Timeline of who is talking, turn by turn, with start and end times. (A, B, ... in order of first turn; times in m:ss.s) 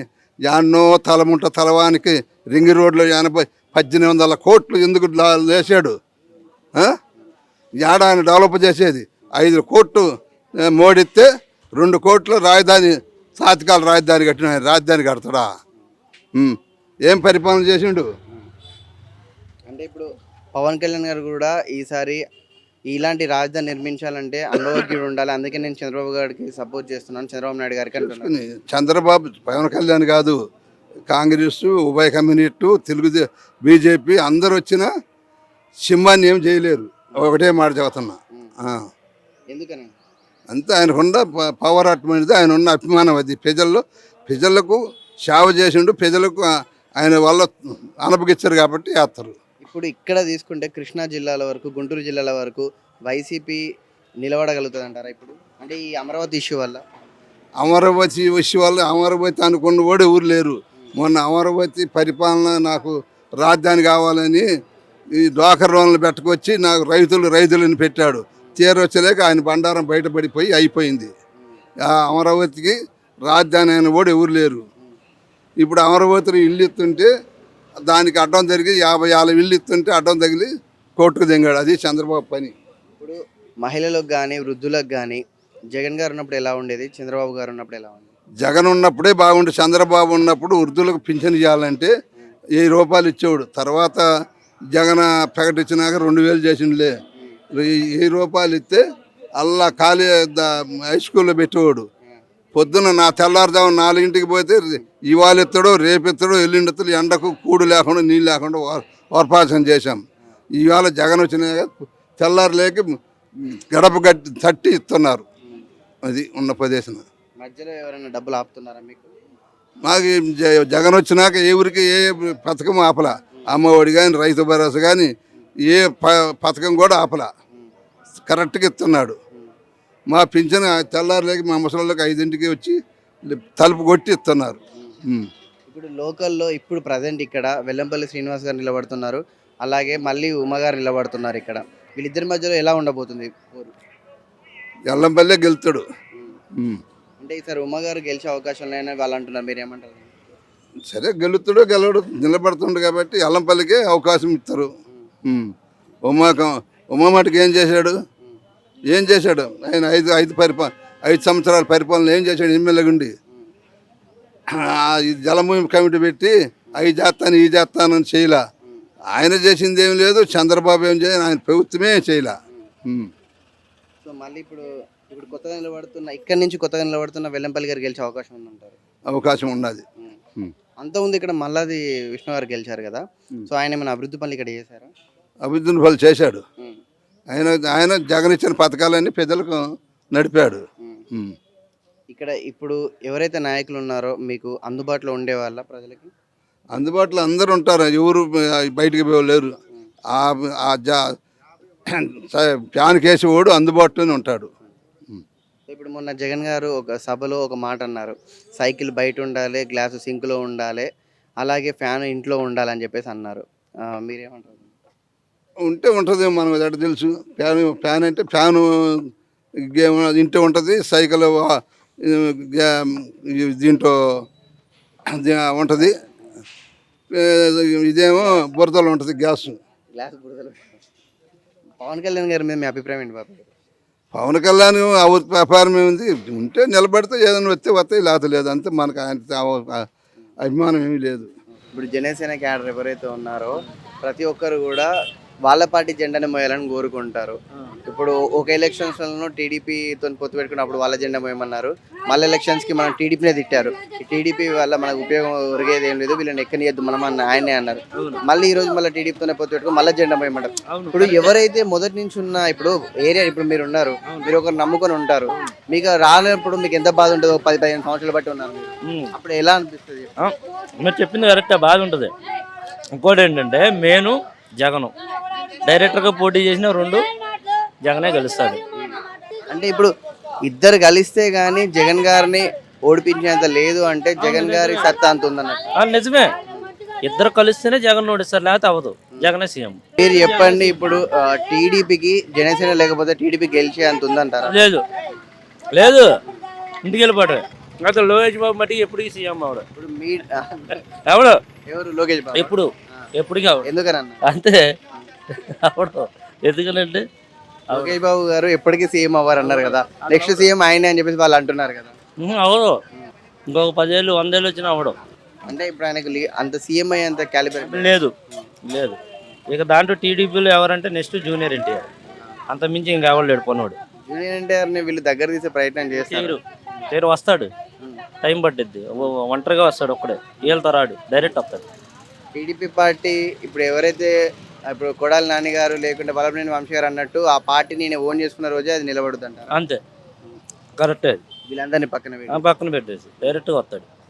0:00.5-0:06.0 A
0:07.8-0:10.0 A
0:10.7-0:15.5 A
0:16.4-0:18.1 A
0:19.7-0:22.2 B
0:22.9-0:28.3 B
0:28.0-0:30.4 A
0:31.1-0:34.9 A
0:35.9-0:38.9 A
0:39.5-0:39.9 B
0:40.5-0:46.5 A
0:47.0-0:47.5 A
0:48.0-0:49.3 A
0:49.6-0:53.6 B
0:54.2-0:56.8 B
0:57.6-1:04.4 A
1:05.2-1:11.1 A
1:11.8-1:14.6 A
1:15.6-1:17.1 A
1:17.9-1:22.5 A
1:23.0-1:28.1 B
1:28.4-1:31.9 A
1:32.6-1:34.0 A
1:34.7-1:37.0 A
1:37.5-1:38.8 A
1:39.4-1:41.9 A
1:42.6-1:50.0 A
1:50.6-1:52.9 A
1:53.4-1:55.2 A
1:56.1-1:57.0 A
1:57.4-1:59.1 B
1:59.8-2:05.1 A
2:05.7-2:07.3 A
2:08.2-2:09.2 A
2:10.1-2:12.8 A
2:13.3-2:15.3 A
2:15.7-2:23.7 B
2:24.9-2:25.8 A
2:26.1-2:26.4 B
2:26.6-2:26.8 A
2:27.2-2:30.1 B
2:30.9-2:34.7 A
2:35.3-2:35.5 A
2:36.1-2:38.0 A
2:38.9-2:43.1 A
2:44.5-2:48.4 A
2:49.1-2:52.4 A
2:52.9-2:53.1 A
2:54.0-2:58.8 B
2:59.1-2:59.8 A
3:00.8-3:04.9 B
3:05.4-3:06.4 A
3:07.3-3:09.6 A
3:10.1-3:11.4 A
3:12.1-3:16.1 B
3:16.8-3:19.6 A
3:20.1-3:21.1 A
3:21.9-3:24.5 A
3:25.7-3:30.9 B
3:31.4-3:34.7 B
3:35.7-3:38.6 A
3:39.7-3:43.9 A
3:45.1-3:46.0 A
3:47.1-3:49.6 A
3:49.9-3:50.8 B
3:51.8-3:53.5 B
3:54.1-3:59.9 A
4:00.4-4:01.3 A
4:01.7-4:04.9 B
4:05.4-4:30.1 B
4:18.0-4:18.2 C
4:20.7-4:21.3 C
4:24.1-4:24.3 C
4:28.8-4:29.1 C
4:30.2-4:32.1 C
4:33.0-4:34.9 C
4:35.6-4:37.0 C
4:37.8-4:38.6 C
4:38.8-4:39.9 B
4:40.5-4:45.6 B
4:44.2-4:44.9 C
4:45.8-4:46.3 C
4:47.1-4:50.7 C
4:50.0-4:54.7 B
4:54.4-4:54.8 C
4:55.7-4:56.1 C
4:56.8-4:59.6 C
4:59.8-5:00.7 B
5:01.1-5:01.4 C
5:01.7-5:02.5 B
5:02.4-5:03.7 C
5:03.7-5:04.2 B
5:04.2-5:04.6 C
5:05.6-5:07.0 C
5:07.7-5:12.0 B
5:09.4-5:10.5 C
5:12.2-5:12.8 C
5:13.5-5:15.0 C
5:15.5-5:18.5 B
5:17.6-5:18.1 C
5:18.7-5:19.0 C
5:19.5-5:21.9 C
5:22.5-5:23.8 C
5:24.1-5:26.3 B
5:26.0-5:26.4 C
5:26.9-5:27.5 C
5:28.2-5:31.6 C
5:32.4-5:34.1 B
5:34.7-5:39.5 B
5:39.5-5:39.8 C
5:40.8-5:41.2 C
5:41.5-5:42.4 B
5:42.3-5:43.9 C